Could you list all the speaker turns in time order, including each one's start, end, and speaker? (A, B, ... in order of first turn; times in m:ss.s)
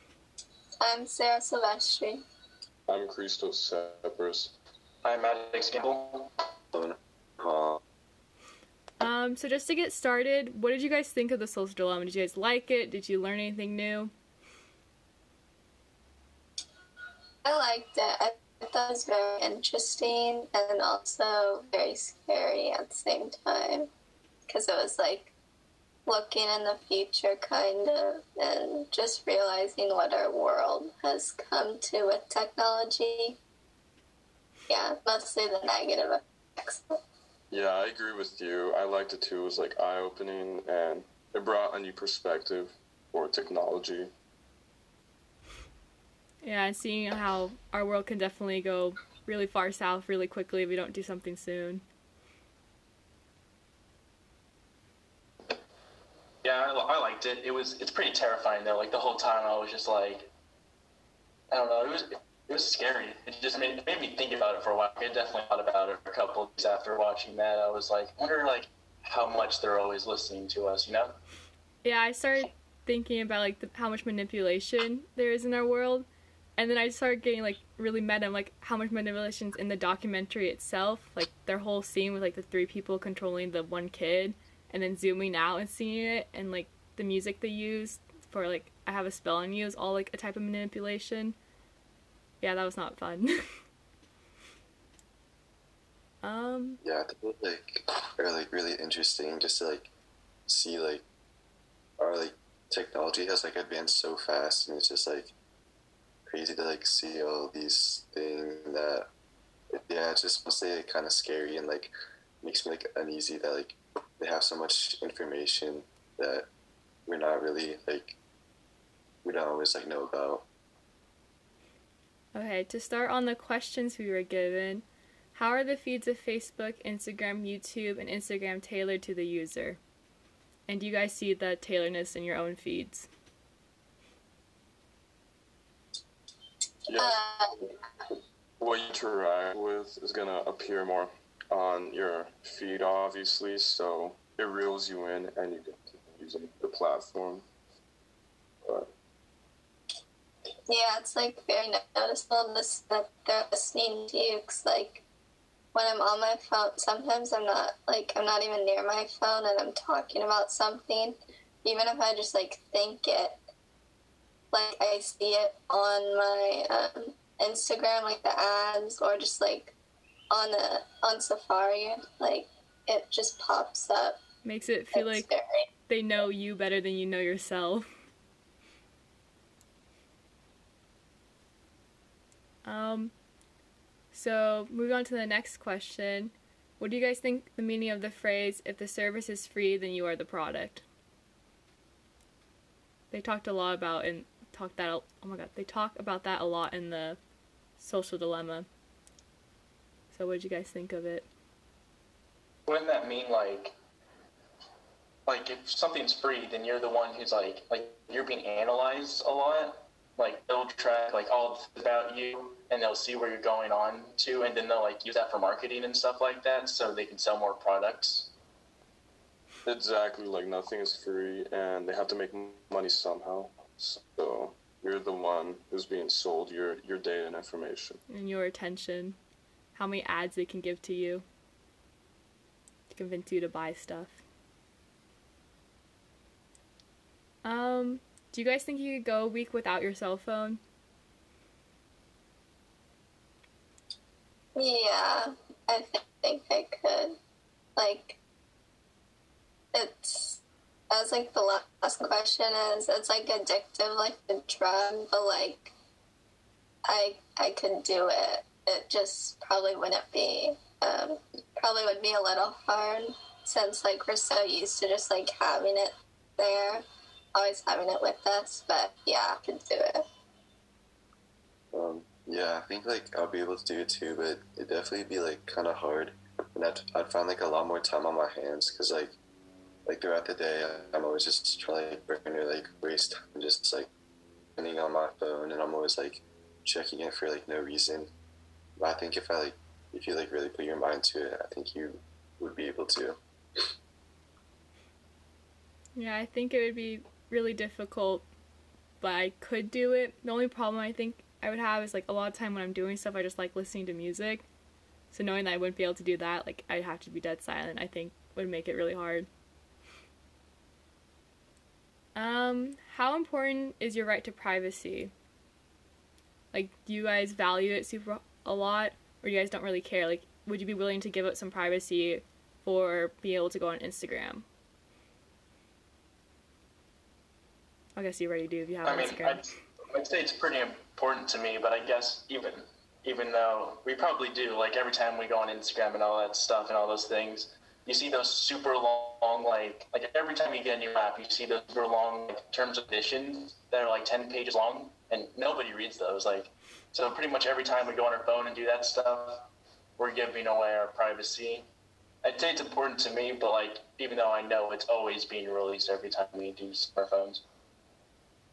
0:00.8-0:02.2 A
0:02.9-0:04.5 B
0:05.0-0:06.3 C
0:06.7-0:07.8 D
0:09.0-0:14.1 E
0:17.4-0:23.9 A
0:24.5-0:25.3 A
0:26.0-0:33.4 A
0:34.7-0:36.9 A
0:37.5-0:44.1 B
0:46.4-0:51.8 E
0:56.4-1:00.3 C
1:01.5-1:11.1 C
1:11.8-1:16.0 E
1:16.6-1:31.3 E
1:32.4-1:33.4 E
1:36.2-1:36.8 E
1:36.8-1:39.9 D
1:40.5-1:41.0 D
1:42.0-1:45.3 D
1:46.3-1:49.1 D
1:49.7-1:56.5 D
1:57.1-1:58.2 D
1:59.2-2:00.4 D
2:02.3-2:09.8 E
2:10.7-2:13.1 E
2:16.8-2:17.2 B
2:17.0-2:17.5 A
2:18.6-2:27.4 B
2:28.6-2:28.9 B
2:30.7-2:35.0 A
2:35.7-2:43.4 A
2:44.5-2:49.7 A
2:50.3-2:54.2 A
2:54.4-2:55.3 E
2:54.9-2:55.7 A
2:55.9-2:57.9 E
3:02.6-3:03.1 E
3:04.1-3:10.8 E
3:13.1-3:17.2 E
3:17.8-3:18.7 E
3:20.1-3:21.2 E
3:22.7-3:23.7 C
3:25.2-3:38.3 C
3:39.6-3:48.0 B
3:48.1-3:49.2 E
3:49.7-3:51.2 E
3:52.9-3:54.2 E
3:57.4-4:00.6 E
4:04.6-4:07.1 A
4:07.8-4:08.2 A
4:09.7-4:10.4 A
4:10.9-4:15.7 A
4:16.9-4:26.8 A
4:27.3-4:30.0 A
4:31.7-4:39.2 D
4:39.8-4:43.9 D
4:44.6-4:48.1 D
4:48.8-4:53.2 D
4:56.0-4:58.2 E
4:59.0-5:04.4 E
5:05.1-5:09.3 E
5:12.2-5:15.1 E
5:16.5-5:24.4 E
5:28.0-5:29.4 E
5:28.8-5:49.5 C
5:50.0-5:51.6 C
5:52.2-5:57.4 C